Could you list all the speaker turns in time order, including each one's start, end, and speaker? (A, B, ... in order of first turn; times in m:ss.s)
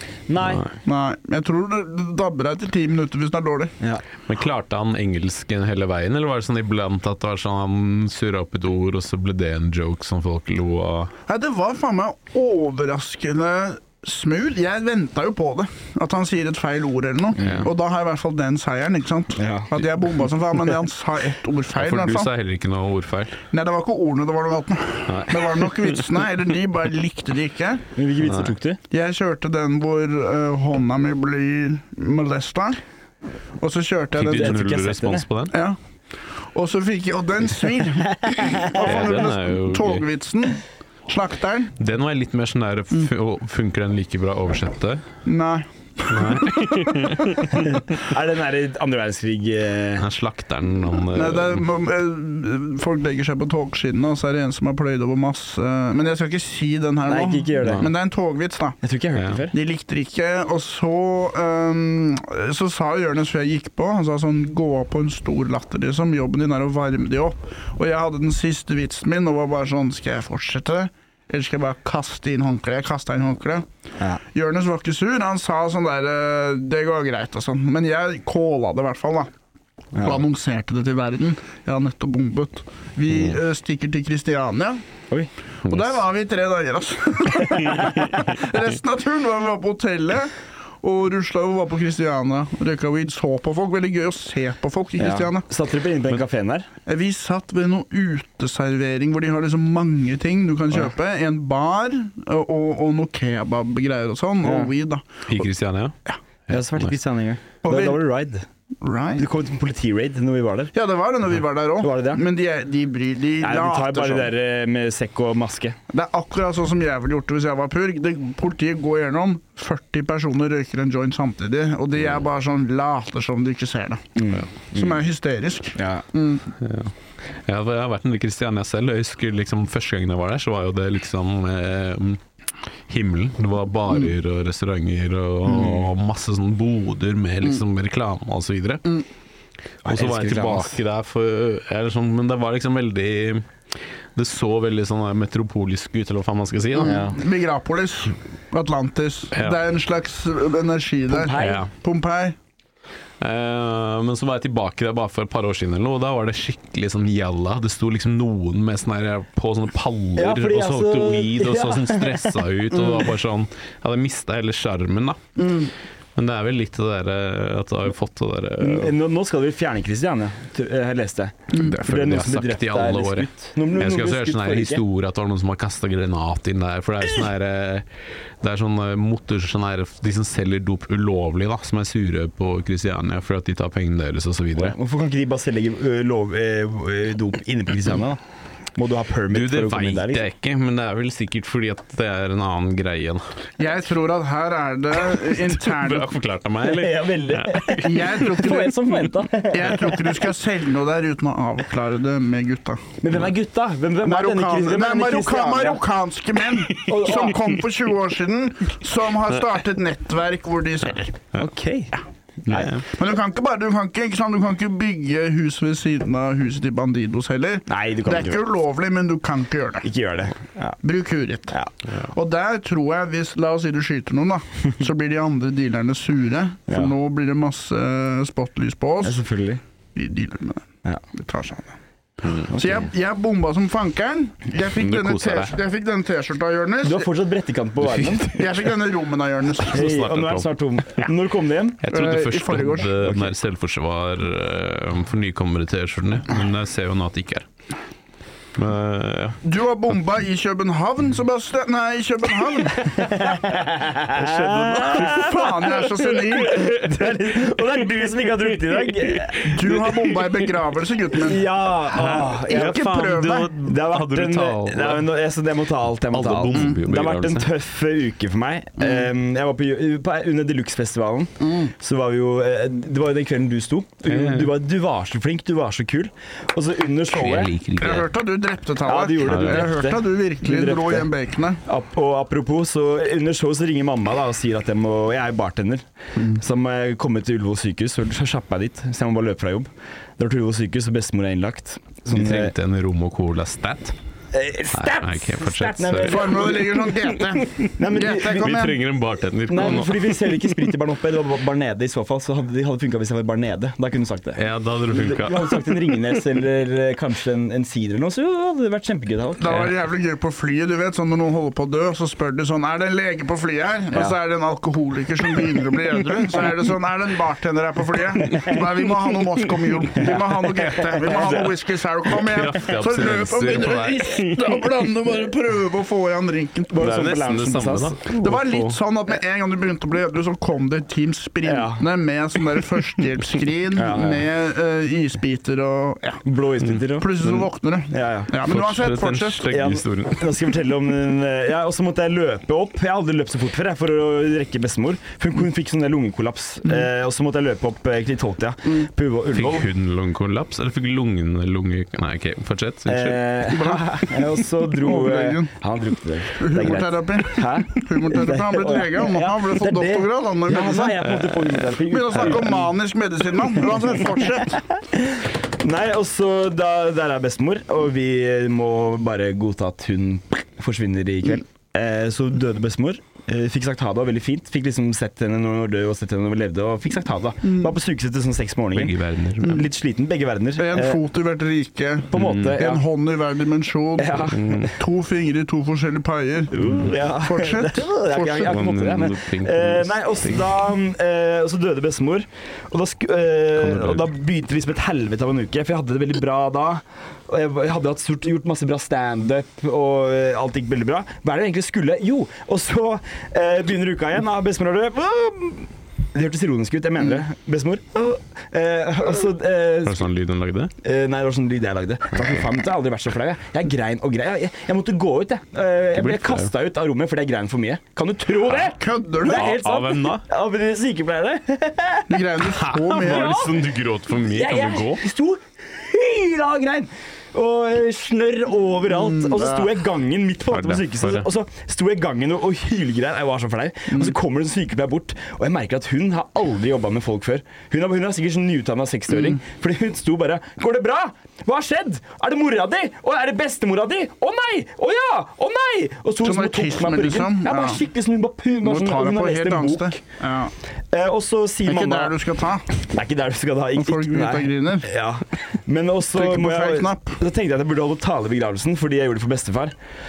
0:00.3-0:00.7 A
0:00.8-0:03.7 B
0:04.3-0:11.1 C
0:11.3-0:22.3 B
0:17.4-0:17.7 A
0:17.4-0:17.7 C
0:19.4-0:19.7 A
0:21.8-0:23.4 C
0:23.5-0:27.8 B
0:25.1-0:26.0 C
0:28.0-0:28.8 A
0:28.9-0:32.8 B
0:33.6-0:34.6 B
0:34.2-0:35.5 C
0:34.2-0:35.3 A
0:35.5-0:35.8 B
0:36.5-0:41.7 B
0:38.1-0:39.1 A
0:38.8-0:40.0 C
0:41.8-0:45.0 C
0:45.2-0:47.5 B
0:46.1-0:47.8 C
0:48.0-0:50.1 A
0:50.0-0:51.6 C
0:51.1-0:58.8 B
0:57.1-0:57.9 A
0:57.6-0:57.9 C
0:58.8-0:59.5 A
0:59.2-0:59.4 C
0:59.5-1:13.7 B
1:14.3-1:19.3 B
1:20.0-1:20.2 A
1:20.0-1:24.8 B
1:25.6-1:35.5 B
1:25.7-1:26.0 C
1:35.0-1:36.7 A
1:36.9-1:45.4 B
1:44.4-1:44.7 A
1:45.3-1:46.0 C
1:46.5-1:47.0 C
1:46.5-1:48.5 A
1:47.6-1:48.0 B
1:48.8-1:49.3 B
1:49.2-1:50.7 A
1:50.7-1:54.3 B
1:51.8-1:52.2 A
1:53.4-1:55.8 A
1:55.9-2:06.4 B
2:04.2-2:05.0 A
2:05.8-2:06.0 A
2:06.6-2:12.2 C
2:12.9-2:18.8 C
2:15.5-2:15.8 A
2:19.8-2:20.8 A
2:19.9-2:23.4 C
2:24.2-2:27.1 C
2:26.8-2:32.4 B
2:26.8-2:27.2 A
2:31.1-2:31.7 A
2:31.4-2:31.7 C
2:33.2-2:45.4 C
2:40.2-2:43.0 A
2:45.4-2:45.7 B
2:46.2-2:48.9 C
2:48.6-2:54.8 A
2:51.6-2:57.9 C
2:58.4-3:04.8 C
3:04.6-3:08.2 A
3:08.8-3:10.3 A
3:09.3-3:13.2 C
3:13.6-3:16.1 B
3:15.1-3:17.8 C
3:16.6-3:20.2 A
3:17.8-3:22.9 B
3:23.0-3:25.8 A
3:24.0-3:31.2 B
3:26.7-3:27.6 A
3:31.4-3:31.9 A
3:32.5-3:32.7 A
3:32.5-3:32.8 C
3:32.9-3:39.9 B
3:37.7-3:38.4 A
3:39.8-3:40.8 A
3:40.8-3:41.6 B
3:42.1-3:49.2 B
3:46.7-3:46.9 A
3:49.0-3:49.6 A
3:50.0-3:51.8 B
3:52.2-3:52.5 C
3:52.5-3:52.9 A
3:52.5-3:57.1 B
3:54.8-3:55.5 C
3:56.8-3:58.4 A
3:57.9-3:58.3 C
3:58.3-3:59.8 B
3:59.7-4:01.8 A
3:59.7-4:01.0 C
4:01.8-4:07.5 C
4:01.9-4:02.9 B
4:03.0-4:03.4 A
4:08.6-4:09.4 C
4:09.4-4:13.0 B
4:12.7-4:19.8 A
4:14.1-4:15.4 C
4:15.0-4:16.8 B
4:19.4-4:21.4 B
4:19.7-4:20.0 C
4:21.2-4:22.9 A
4:22.0-4:25.1 C
4:22.4-4:23.5 B
4:23.6-4:37.5 A
4:26.1-4:27.5 C
4:28.8-4:29.1 B
4:31.4-4:31.7 B
4:34.1-4:34.6 C
4:37.1-4:38.1 C
4:37.8-4:41.6 B
4:38.8-4:41.1 A
4:39.2-4:39.7 C
4:41.6-4:52.5 A
4:52.1-4:54.0 C
4:54.3-4:56.9 A
4:54.7-4:56.5 C
4:56.0-4:58.8 B
4:57.8-4:58.7 A
4:58.2-5:00.6 C
4:59.5-5:09.6 A
5:04.4-5:06.1 C
5:09.4-5:26.8 B
5:20.0-5:21.6 A
5:22.1-5:24.5 C
5:26.7-5:28.0 A
5:26.8-5:28.8 C
5:28.2-5:36.2 B
5:31.4-5:31.8 A
5:33.8-5:34.3 A
5:36.2-5:37.4 A
5:36.9-5:39.5 B
5:37.9-5:38.4 A
5:38.5-5:40.4 C
5:39.5-5:49.7 A
5:49.3-5:53.5 C
5:52.9-6:02.8 A
5:53.5-5:55.5 B
5:56.3-6:01.1 B
6:01.1-6:01.5 C
6:01.8-6:04.6 B
6:03.5-6:21.0 A
6:18.7-6:19.6 C
6:20.6-6:28.6 B
6:22.1-6:22.8 A
6:22.1-6:22.6 C
6:24.0-6:24.7 A
6:24.3-6:24.7 C
6:26.5-6:50.1 A
6:28.4-6:30.5 C
6:33.6-6:34.1 C
6:49.8-6:50.7 C
6:50.8-7:02.3 A
6:56.0-6:56.5 C
6:58.6-6:59.6 B
6:59.2-7:00.2 C
7:02.1-7:03.5 B
7:02.6-7:05.0 C
7:02.9-7:03.7 A
7:04.2-7:30.0 A
7:09.0-7:09.7 B
7:10.5-7:11.3 C
7:26.2-7:27.8 B
7:28.6-7:30.5 B
7:30.9-7:32.2 A
7:31.7-7:32.7 B
7:32.8-7:39.8 A
7:33.8-7:34.9 B
7:36.1-7:37.2 B